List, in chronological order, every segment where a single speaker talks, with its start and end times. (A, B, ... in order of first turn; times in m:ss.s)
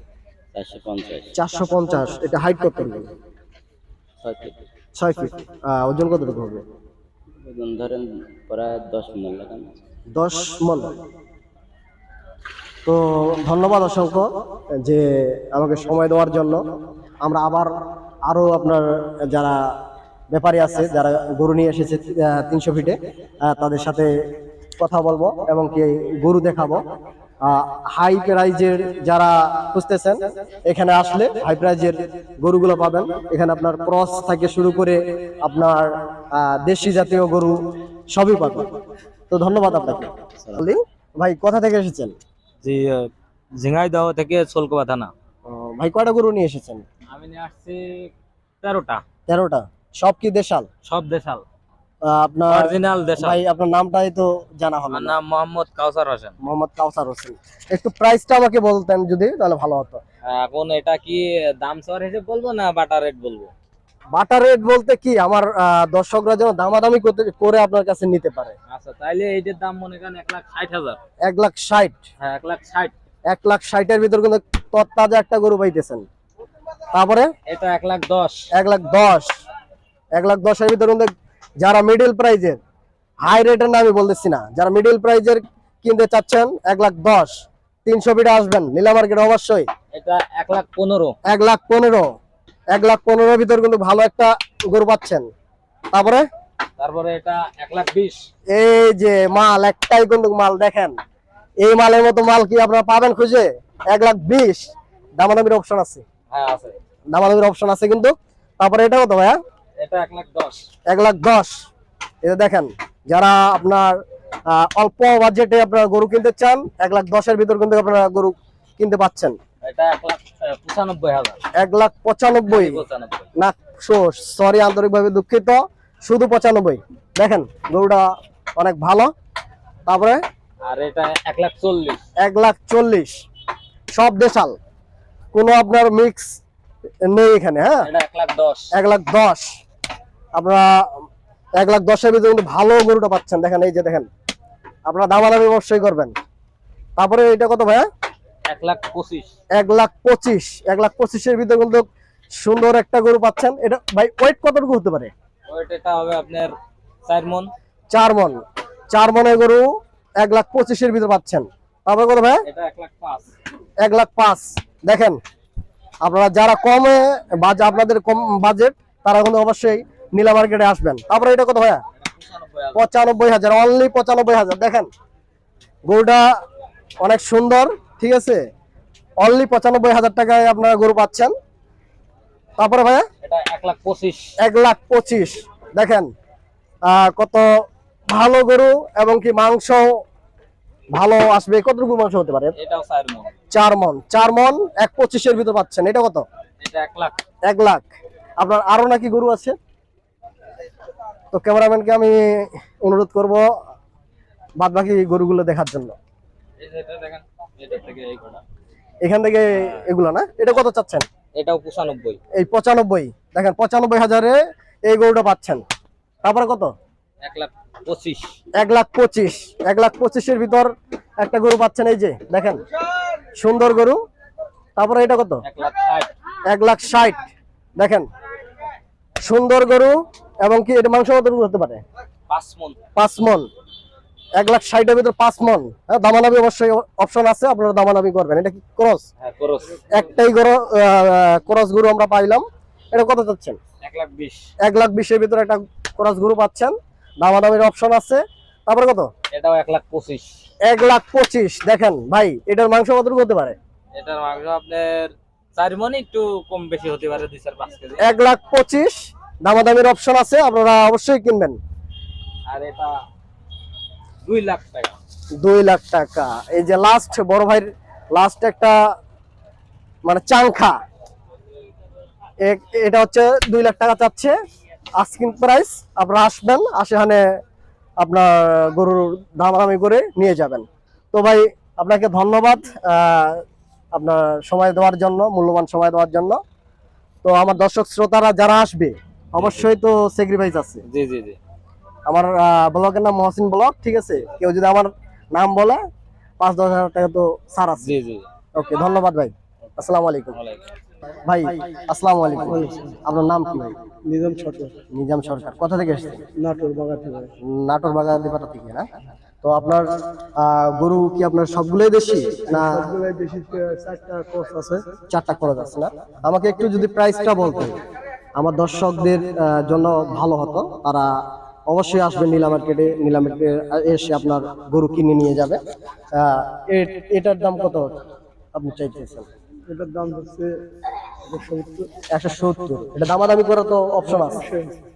0:00.5-0:01.3 A
0:01.3-0:03.1 B
0:04.2-0:04.6 A
0:04.9-0:06.6 B
0:07.4-0:09.8 A
0:10.1-0:10.9 B
0:12.8-0:16.6 B
0:17.2-0:17.7 B
0:18.2-0:19.8 B
0:20.3-0:24.2 B
0:24.8-0:26.8 B
0:27.4-0:38.7 B
0:39.3-0:42.2 B
0:42.6-0:45.1 C
0:45.4-0:46.8 B
0:47.1-0:48.1 C
0:48.6-0:49.0 C
0:49.3-0:50.7 B
0:50.8-0:51.4 C
0:52.0-0:55.1 B
0:52.5-0:53.4 C
0:54.9-0:56.3 C
0:56.4-1:00.0 B
1:00.3-1:03.5 C
1:04.1-1:08.6 B
1:08.7-1:11.0 C
1:11.2-1:12.0 B
1:12.2-1:12.9 C
1:13.3-1:16.0 B
1:16.9-1:17.3 B
1:17.5-1:18.5 C
1:18.5-1:19.3 B
1:20.1-1:22.6 B
1:23.2-1:29.7 B
1:29.9-1:31.2 C
1:31.2-1:32.1 B
1:32.7-1:35.3 B
1:35.9-1:36.3 B
1:36.8-1:38.3 C
1:38.5-1:41.0 B
1:41.6-1:46.0 B
1:46.3-1:46.8 C
1:47.1-1:49.4 B
1:49.8-1:50.6 C
1:50.8-1:51.6 B
1:52.2-1:59.4 B
1:59.6-2:01.4 C
2:01.6-2:02.8 B
2:02.5-2:03.3 C
2:03.4-2:09.1 B
2:09.9-2:10.2 B
2:10.6-2:12.0 C
2:12.2-2:13.2 B
2:13.9-2:14.6 B
2:15.3-2:16.4 B
2:17.0-2:17.9 B
2:17.8-2:18.7 C
2:18.7-2:19.6 B
2:20.3-2:24.1 B
2:24.8-2:26.1 B
2:27.0-2:27.9 B
2:28.4-2:29.3 C
2:29.5-2:35.1 B
2:35.5-2:36.5 C
2:37.0-2:37.5 C
2:37.9-2:42.4 B
2:42.4-2:43.3 C
2:43.8-2:45.2 B
2:46.0-2:51.8 B
2:52.0-2:52.8 C
2:52.7-2:54.9 B
2:55.8-2:56.4 B
2:57.0-2:58.5 B
2:59.2-3:01.3 B
3:02.6-3:03.1 B
3:03.2-3:04.3 C
3:04.4-3:06.1 B
3:06.8-3:07.5 B
3:08.1-3:10.0 B
3:10.9-3:12.5 B
3:12.6-3:13.3 C
3:13.5-3:16.2 B
3:16.6-3:17.2 C
3:17.4-3:19.6 B
3:21.3-3:23.5 B
3:24.6-3:26.0 B
3:26.6-3:28.4 C
3:29.0-3:31.1 B
3:31.4-3:32.2 C
3:32.3-3:35.6 B
3:36.2-3:36.7 B
3:37.2-3:38.3 C
3:38.5-3:42.6 B
3:43.4-3:44.0 B
3:44.8-3:45.4 B
3:45.4-3:46.1 C
3:46.4-3:48.1 B
3:49.2-3:51.8 B
3:52.3-3:52.8 C
3:53.0-3:53.5 B
3:54.4-3:59.1 B
3:59.2-4:00.0 C
3:59.9-4:03.6 B
4:03.8-4:04.5 C
4:04.6-4:09.1 B
4:09.3-4:10.3 C
4:10.6-4:13.6 B
4:13.9-4:18.1 C
4:18.0-4:21.6 B
4:22.5-4:23.0 C
4:24.2-4:25.0 C
4:25.4-4:28.9 B
4:30.0-4:30.8 B
4:32.4-4:34.4 B
4:35.0-4:37.4 B
4:38.0-4:46.4 B
4:47.2-4:50.8 B
4:49.4-4:49.6 C
4:50.9-4:51.4 C
4:52.1-4:55.8 B
4:56.4-4:57.9 B
4:57.8-4:58.2 C
4:58.5-5:00.4 B
5:00.3-5:00.6 C
5:01.2-5:03.8 B
5:02.5-5:03.0 D
5:04.0-5:04.7 D
5:04.9-5:06.2 B
5:06.4-5:07.3 D
5:07.4-5:08.9 B
5:09.4-5:12.9 B
5:12.5-5:14.8 D
5:15.1-5:17.8 B
5:18.4-5:25.6 B
5:26.1-5:28.0 B
5:28.5-5:29.3 B
5:29.7-5:30.6 D
5:31.2-5:31.9 D
5:32.1-5:34.4 B
5:34.1-5:34.8 D